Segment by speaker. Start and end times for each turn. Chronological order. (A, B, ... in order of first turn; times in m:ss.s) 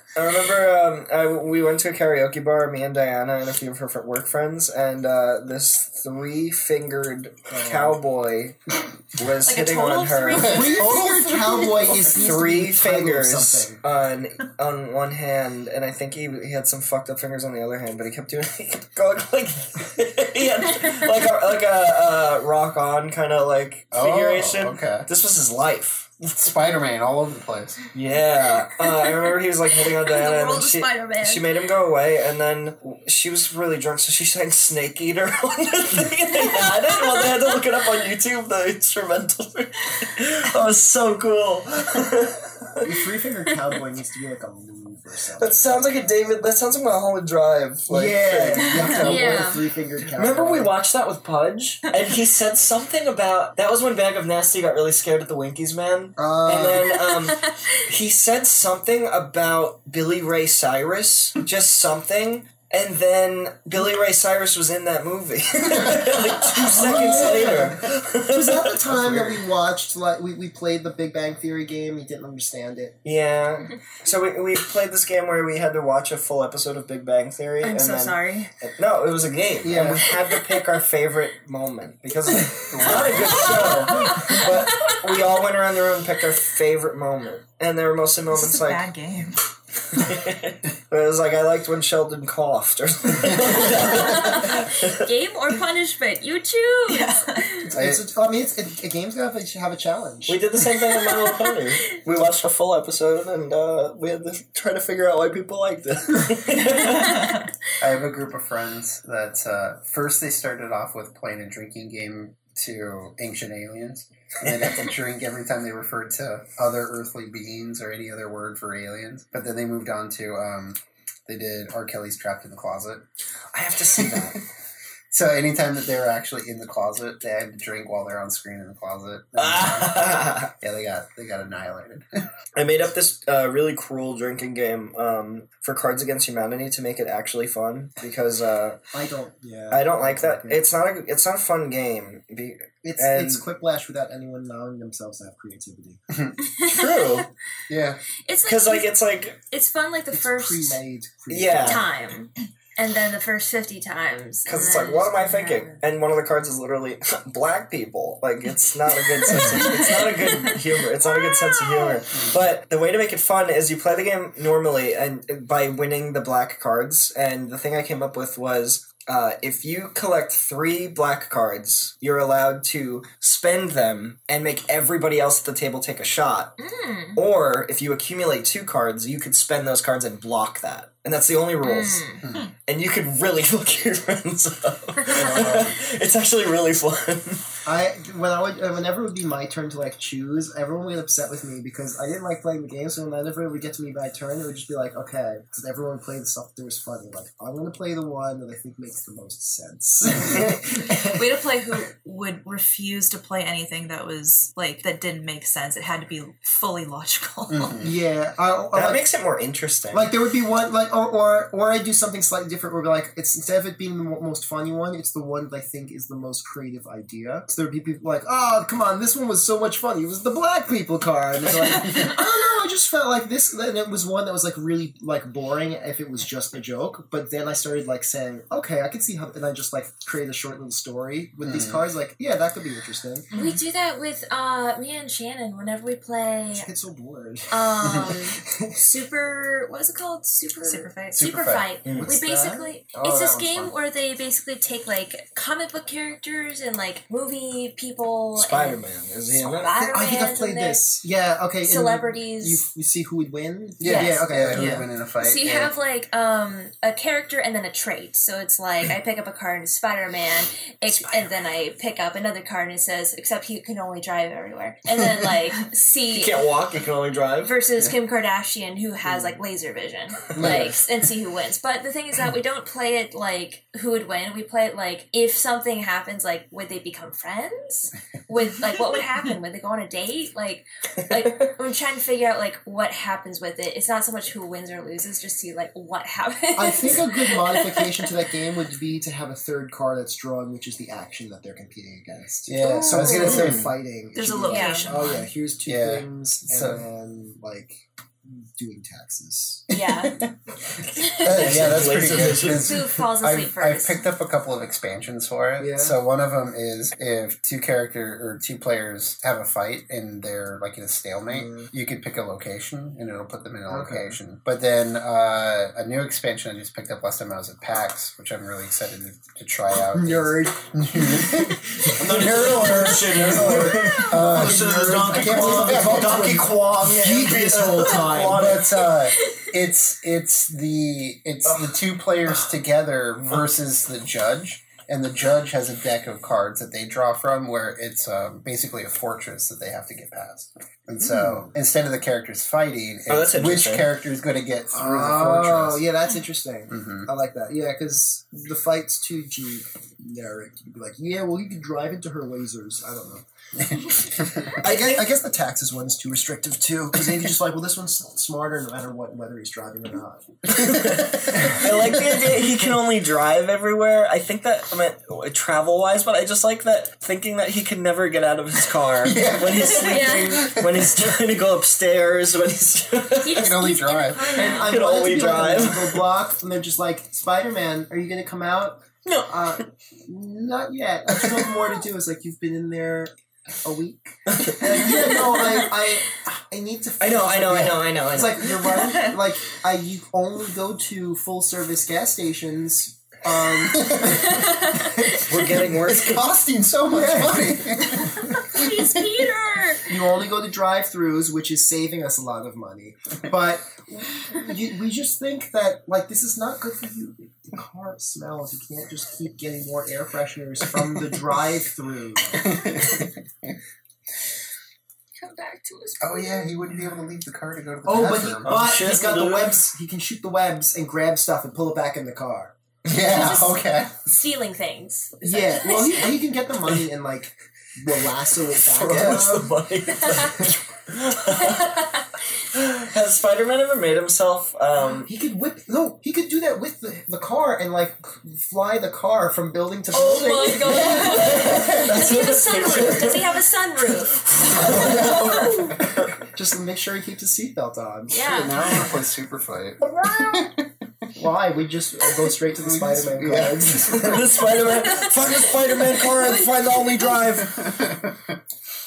0:00.2-0:10.5 A
0:07.5-0:08.0 B
0:09.4-0:11.1 C
0:10.3-0:12.3 D
0:10.4-0:13.8 B
0:11.9-0:26.2 A
0:20.6-0:21.2 E
0:23.9-0:25.1 D
0:26.2-0:27.8 D
0:27.9-0:42.8 A
0:29.9-0:31.5 E
0:36.6-0:37.2 E
0:42.8-0:45.8 B
0:45.4-0:49.5 A
0:47.9-0:50.7 B
0:48.8-0:49.2 D
0:48.9-0:49.6 E
0:50.1-1:09.4 A
0:56.2-0:56.9 B
0:56.9-0:57.8 E
1:06.6-1:13.0 B
1:06.9-1:07.7 D
1:13.0-1:28.8 A
1:17.6-1:18.5 E
1:18.1-1:18.4 C
1:19.6-1:20.2 B
1:22.7-1:23.7 D
1:22.7-1:23.0 B
1:23.8-1:24.4 C
1:23.9-1:25.0 E
1:28.3-1:29.4 C
1:29.9-1:35.1 A
1:33.8-1:37.7 E
1:36.9-1:37.6 C
1:37.6-1:40.4 B
1:37.7-1:38.0 D
1:40.3-1:47.3 A
1:46.8-1:47.4 C
1:47.8-2:03.0 D
2:03.5-2:04.4 A
2:04.0-2:04.4 D
2:05.1-2:12.0 D
2:09.4-2:10.5 A
2:12.6-2:18.8 A
2:18.9-2:20.6 B
2:19.7-2:23.4 A
2:22.8-2:26.0 B
2:26.4-2:27.2 E
2:26.6-2:27.3 A
2:27.7-2:28.0 D
2:28.2-2:30.8 E
2:28.4-2:29.4 A
2:30.1-2:31.9 B
2:31.3-2:31.8 A
2:31.6-2:35.8 E
2:34.4-2:56.6 A
2:39.3-2:42.0 E
2:56.6-2:57.2 E
2:57.1-3:02.0 A
3:01.6-3:02.2 E
3:02.6-3:07.4 A
3:05.0-3:05.4 E
3:05.1-3:05.7 D
3:07.6-3:21.4 B
3:21.0-3:27.8 C
3:27.5-3:27.9 D
3:27.8-3:29.0 B
3:28.7-3:30.1 A
3:29.9-3:53.3 B
3:41.5-3:42.1 C
3:41.6-3:42.2 D
3:51.4-3:51.8 D
3:53.3-3:53.6 C
3:53.3-3:56.7 E
3:56.5-3:58.8 B
3:57.5-4:08.8 E
4:00.6-4:01.2 C
4:01.1-4:01.7 D
4:01.8-4:02.1 A
4:01.9-4:03.7 B
4:08.4-4:09.8 A
4:09.3-4:10.8 E
4:09.7-4:14.9 B
4:11.6-4:12.6 E
4:13.8-4:15.7 D
4:13.8-4:26.5 E
4:26.1-4:27.5 A
4:27.4-4:48.1 E
4:30.3-4:30.9 D
4:41.1-4:41.5 A
4:46.5-4:59.7 B
4:52.4-4:53.8 D
4:52.6-4:53.5 E
4:54.1-4:55.3 C
4:54.4-4:55.0 E
4:55.6-4:56.8 D
4:59.7-5:00.3 E
4:59.7-5:00.3 D
5:01.0-5:01.5 E
5:01.1-5:02.9 A
5:01.1-5:26.5 D
5:02.4-5:04.0 E
5:05.6-5:06.0 B
5:11.3-5:11.7 B
5:13.7-5:14.2 B
5:19.8-5:28.7 B
5:21.8-5:28.8 A
5:28.0-5:45.8 D
5:29.2-5:29.5 E
5:31.4-5:31.7 A
5:41.0-5:41.5 B
5:43.1-5:43.9 A
5:44.7-5:53.2 B
5:46.7-5:47.1 D
5:53.5-5:54.5 D
5:54.4-6:00.2 B
5:54.6-5:55.1 A
6:00.5-6:13.5 A
6:09.0-6:10.9 D
6:09.8-6:10.4 E
6:13.2-6:15.0 E
6:13.3-6:14.6 D
6:14.4-6:35.2 B
6:14.4-6:16.0 A
6:19.0-6:19.3 A
6:24.3-6:25.1 A
6:27.0-6:29.0 A
6:33.7-6:34.6 D
6:34.0-6:35.0 E
6:35.1-6:36.3 A
6:35.4-6:39.1 D
6:36.9-6:37.8 B
6:38.1-6:39.9 E
6:39.9-6:53.0 B
6:52.4-6:53.5 D
6:55.2-6:56.5 E
6:56.0-6:58.7 D
6:57.8-7:02.5 B
6:58.4-6:59.6 A
7:02.8-7:03.9 D
7:02.9-7:06.2 E
7:05.2-7:09.6 B
7:08.5-7:11.9 A
7:11.3-7:12.1 E
7:12.5-7:15.1 A
7:14.9-7:21.6 B
7:19.9-7:25.8 E
7:20.6-7:23.3 A
7:24.3-7:26.3 A
7:24.5-7:25.2 B
7:24.6-7:25.2 D
7:26.3-7:29.0 B
7:28.1-7:28.9 E
7:28.2-7:30.8 D
7:31.1-7:34.6 B
7:32.6-7:34.2 D
7:33.7-7:37.6 A
7:34.7-7:35.1 E
7:35.9-7:36.9 E
7:37.4-7:38.4 D